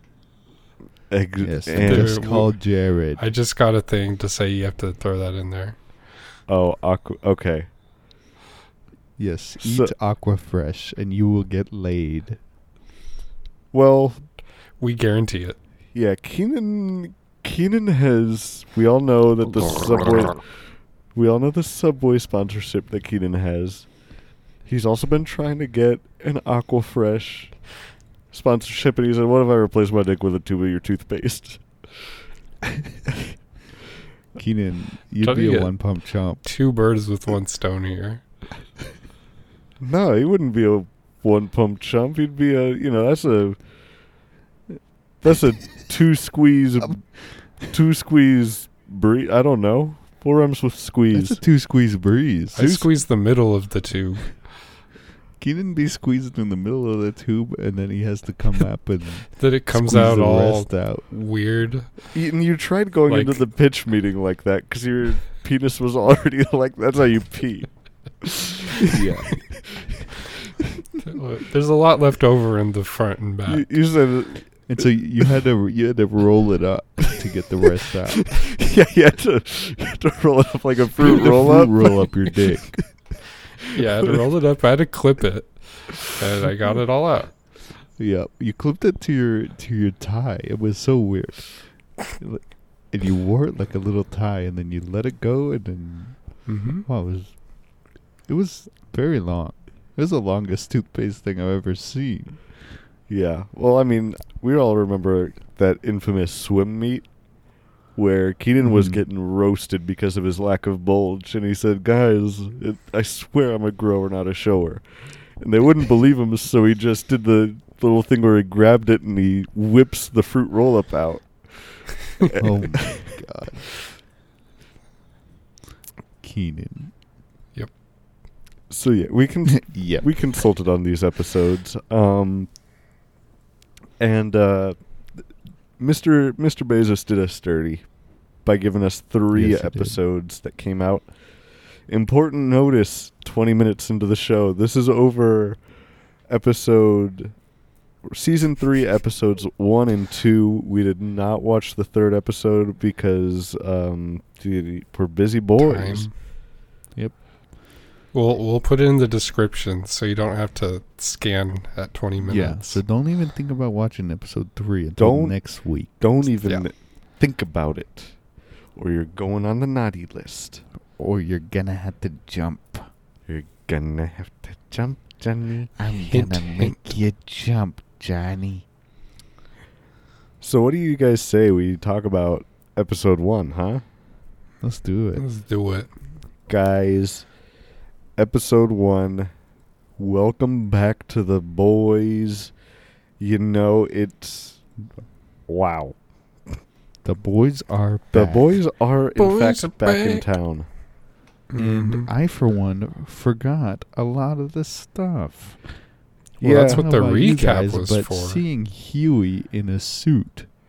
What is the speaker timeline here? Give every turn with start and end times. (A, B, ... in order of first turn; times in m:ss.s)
0:01.1-0:02.4 A
0:01.4-0:03.2 B
0:01.8-0:05.8 C
0:06.5-0:07.7 A
0:09.2-0:12.4 B
0:09.6-0:09.9 A
0:13.7-0:14.3 A
0:14.8-0:15.6 C
0:15.9-0:20.5 A
0:21.1-0:23.9 A
0:24.6-0:27.6 A
0:28.3-0:31.6 A
0:34.4-0:36.4 B
0:35.2-0:38.2 C
0:39.8-0:43.6 A
0:45.2-0:51.4 A
0:51.1-0:52.8 B
0:52.5-0:54.4 C
0:55.4-1:01.0 B
0:59.4-1:01.9 C
1:02.1-1:07.7 A
1:03.1-1:03.4 C
1:08.2-1:09.0 A
1:08.8-1:09.4 B
1:11.0-1:13.6 C
1:13.5-1:14.6 A
1:14.7-1:18.3 B
1:18.3-1:22.8 A
1:21.0-1:22.8 B
1:23.7-1:27.3 C
1:28.0-1:37.4 B
1:36.4-1:36.8 C
1:38.3-1:42.4 B
1:43.1-1:47.0 A
1:48.0-1:54.8 A
1:48.6-1:49.0 B
1:55.4-2:03.1 A
2:02.4-2:03.6 B
2:06.2-2:06.9 B
2:08.7-2:12.5 A
2:09.5-2:10.1 B
2:14.0-2:15.2 A
2:15.8-2:17.9 A
2:18.4-2:21.1 A
2:19.3-2:20.0 B
2:21.9-2:25.6 A
2:26.3-2:27.4 A
2:28.1-2:36.1 A
2:35.6-2:36.1 C
2:38.1-2:42.8 C
2:42.2-2:46.1 B
2:45.0-2:48.2 A
2:48.7-2:50.6 A
2:51.0-2:52.9 B
2:53.3-2:55.7 A
2:55.8-2:58.6 B
2:56.0-2:57.0 C
3:00.4-3:03.8 A
3:04.6-3:05.2 B
3:05.1-3:05.9 C
3:06.5-3:07.3 A
3:08.2-3:09.3 A
3:10.0-3:12.5 A
3:13.2-3:14.6 A
3:15.5-3:15.9 A
3:17.0-3:18.6 B
3:18.1-3:20.7 A
3:19.2-3:20.3 C
3:21.5-3:22.1 C
3:21.6-3:25.7 B
3:26.4-3:26.8 A
3:26.4-3:28.4 C
3:26.4-3:30.5 B